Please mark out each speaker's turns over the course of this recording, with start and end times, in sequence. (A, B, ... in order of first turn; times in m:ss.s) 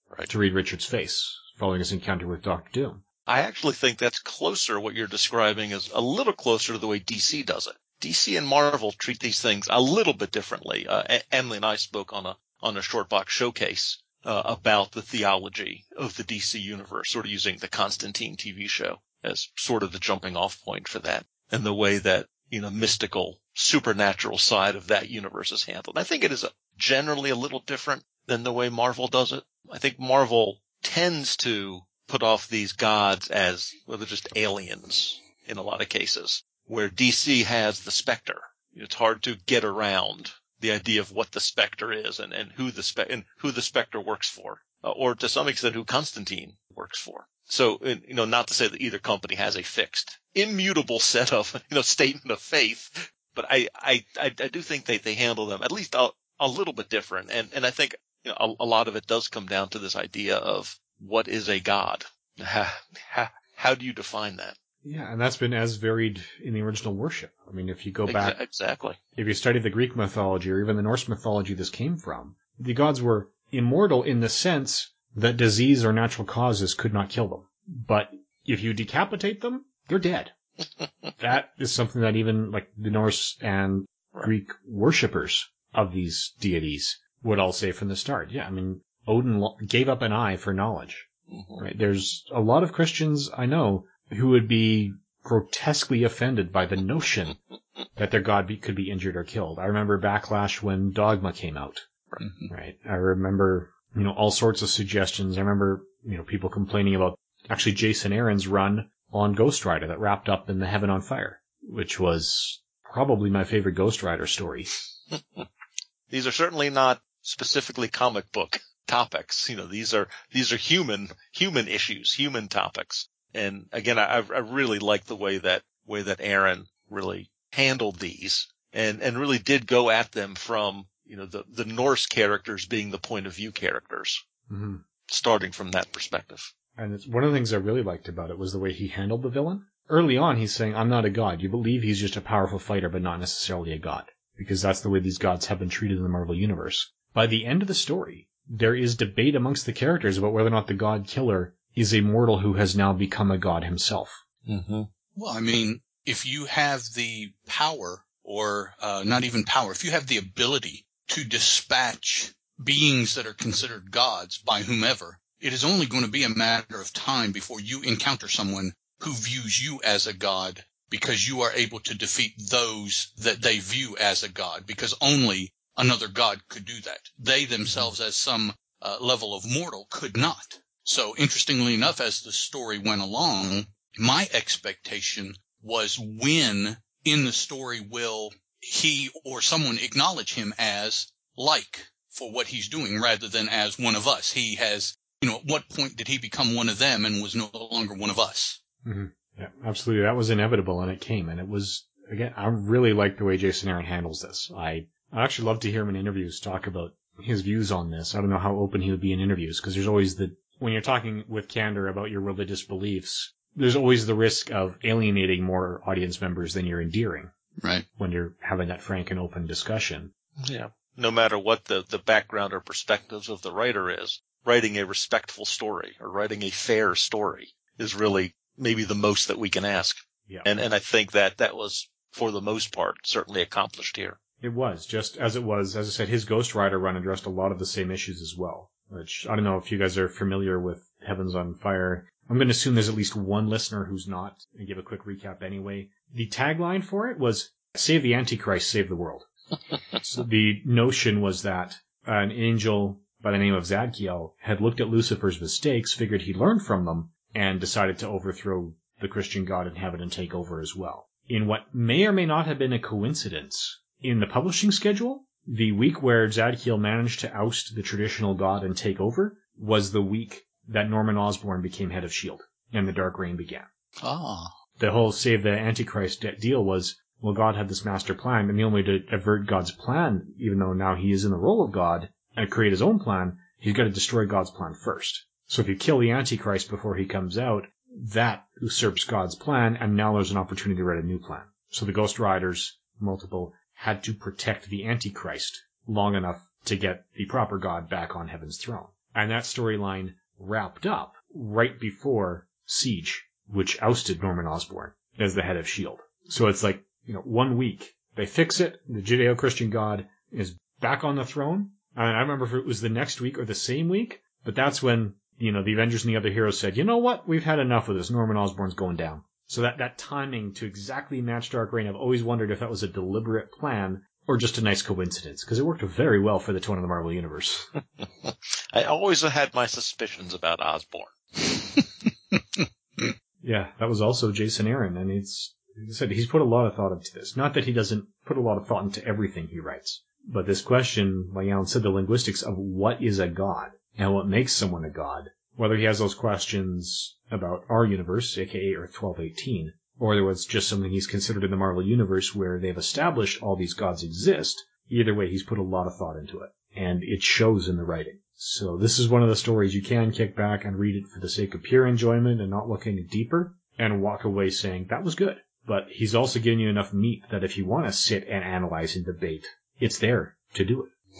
0:00.3-0:03.0 A
0:03.3-1:04.6 B
1:04.8-1:08.4 A
1:08.1-1:09.0 B
1:09.2-1:20.3 A
1:21.2-1:37.4 A
1:31.3-1:31.6 B
1:38.0-1:54.7 A
1:42.2-1:42.5 C
1:55.1-1:55.5 B
1:56.1-2:14.2 B
2:14.5-2:14.8 A
2:15.1-2:16.5 B
2:16.8-2:34.2 A
2:34.5-2:34.9 B
2:35.2-3:18.6 C
3:18.8-3:37.3 A
3:37.6-3:37.8 C
3:38.0-3:40.1 A
3:40.4-3:54.2 B
3:54.4-4:09.3 A
4:10.0-4:33.7 A
4:34.0-4:34.5 C
4:34.8-5:27.7 A
5:28.0-5:32.4 B
5:33.4-6:10.9 A